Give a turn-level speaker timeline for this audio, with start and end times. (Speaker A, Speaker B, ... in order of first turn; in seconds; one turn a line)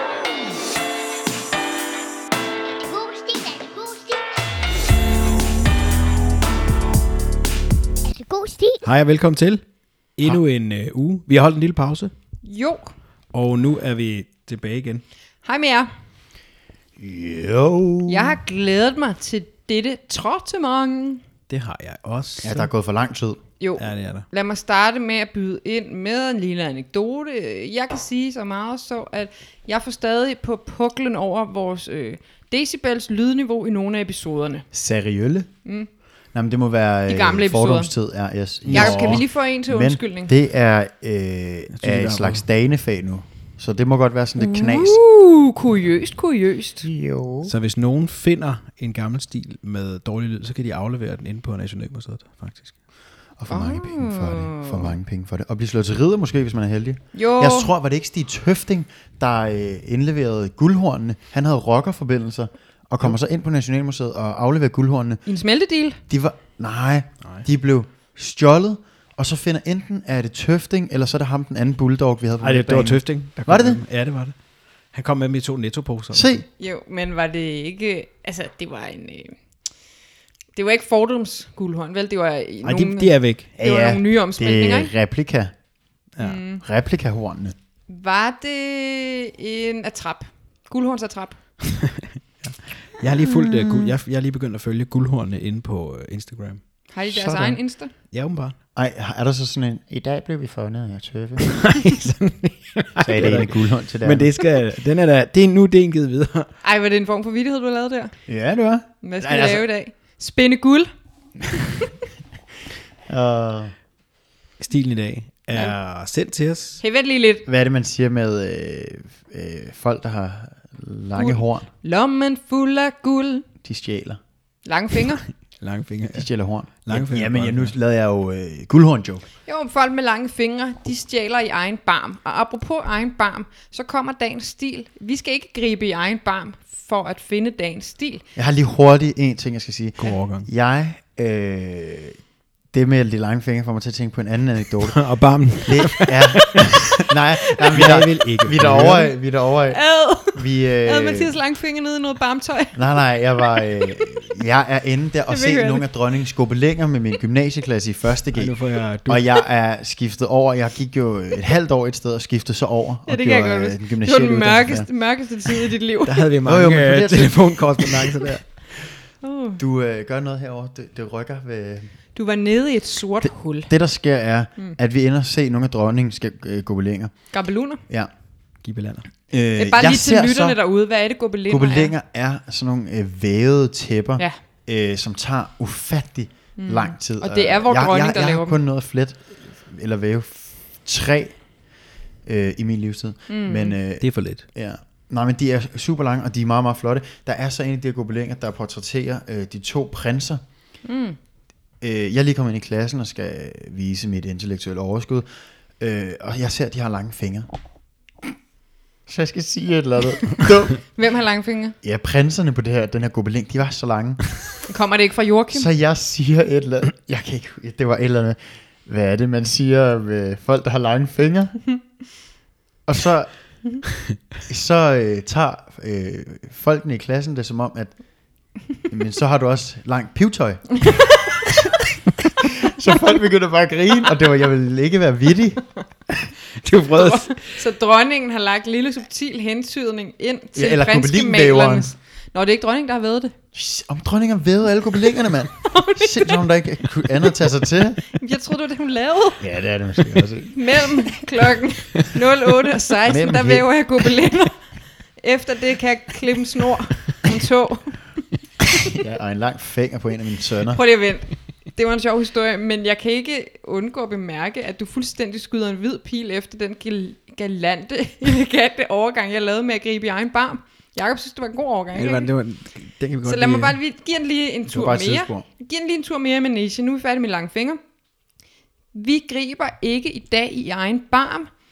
Speaker A: 2.8-4.3
Speaker A: 8.1-8.8
Speaker B: 8.8-9.6
Speaker B: 10.2-12.1
Speaker C: 12.4-12.9
Speaker B: 13.3-15.0
Speaker C: 15.4-15.9
Speaker D: 17.0-18.4
Speaker C: 18.1-21.2
Speaker B: 21.5-22.7
Speaker D: 22.4-23.4
Speaker C: 23.6-34.6
Speaker B: 23.8-24.3
Speaker D: 34.7-35.5
Speaker D: 36.3-45.0
Speaker C: 37.1-37.9
Speaker B: 38.7-39.2
Speaker C: 38.7-40.3
Speaker B: 41.7-42.4
Speaker C: 44.4-46.9
Speaker D: 46.9-47.5
Speaker B: 47.4-52.7
Speaker D: 53.4-65.2
Speaker C: 53.5-54.9
Speaker C: 57.1-57.7
Speaker C: 65.3-66.0
Speaker D: 66.1-73.8
Speaker B: 72.4-74.3
Speaker B: 74.9-76.3
Speaker D: 76.1-76.5
Speaker C: 76.6-79.4
Speaker C: 80.5-84.9
Speaker B: 82.6-83.5
Speaker D: 83.6-85.5
Speaker C: 86.2-86.6
Speaker D: 86.6-87.5
Speaker C: 87.9-91.4
Speaker B: 91.7-98.5
Speaker D: 93.4-93.9
Speaker C: 96.9-97.9
Speaker D: 98.8-101.6
Speaker B: 101.5-106.5
Speaker D: 103.0-104.3
Speaker C: 106.6-108.1
Speaker D: 108.3-109.6
Speaker C: 109.0-110.9
Speaker C: 111.6-111.9
Speaker D: 113.1-113.7
Speaker B: 114.6-116.8
Speaker C: 116.8-117.5
Speaker D: 117.5-121.7
Speaker C: 121.2-123.5
Speaker D: 123.6-124.2
Speaker C: 124.7-125.2
Speaker B: 125.6-126.3
Speaker D: 126.1-129.2
Speaker B: 126.8-127.7
Speaker C: 129.5-138.2
Speaker D: 138.4-142.2
Speaker B: 140.0-140.5
Speaker D: 142.7-145.0
Speaker B: 144.9-149.1
Speaker D: 145.6-149.8
Speaker C: 149.7-152.8
Speaker D: 150.3-151.4
Speaker D: 152.8-164.9
Speaker C: 153.5-153.9
Speaker C: 155.3-155.9
Speaker B: 158.3-159.3
Speaker C: 163.1-166.2
Speaker B: 166.1-168.5
Speaker D: 166.4-168.1
Speaker C: 169.2-169.6
Speaker D: 169.6-171.9
Speaker C: 172.2-173.7
Speaker D: 173.2-178.1
Speaker C: 177.3-177.8
Speaker B: 178.6-179.1
Speaker D: 179.3-180.6
Speaker C: 179.6-181.9
Speaker D: 181.5-191.4
Speaker C: 186.6-188.6
Speaker D: 192.2-200.4
Speaker C: 193.3-193.8
Speaker B: 194.0-194.4
Speaker C: 200.8-201.2
Speaker D: 201.8-205.3
Speaker D: 205.8-207.5
Speaker D: 209.1-210.8
Speaker C: 210.9-211.8
Speaker D: 211.8-214.3
Speaker C: 214.7-215.7
Speaker D: 215.5-221.6
Speaker D: 222.9-223.3
Speaker D: 224.4-228.0
Speaker D: 228.8-230.8
Speaker D: 232.4-235.7
Speaker B: 236.6-237.4
Speaker C: 236.9-243.3
Speaker D: 240.6-241.9
Speaker D: 243.5-248.1
Speaker C: 245.6-246.5
Speaker C: 248.1-249.4
Speaker D: 249.4-250.9
Speaker C: 250.5-254.6
Speaker D: 253.1-253.7
Speaker C: 255.2-258.1
Speaker D: 258.9-260.8
Speaker C: 260.7-272.3
Speaker B: 271.9-273.8
Speaker C: 273.2-277.8
Speaker D: 274.7-275.5
Speaker C: 278.9-281.5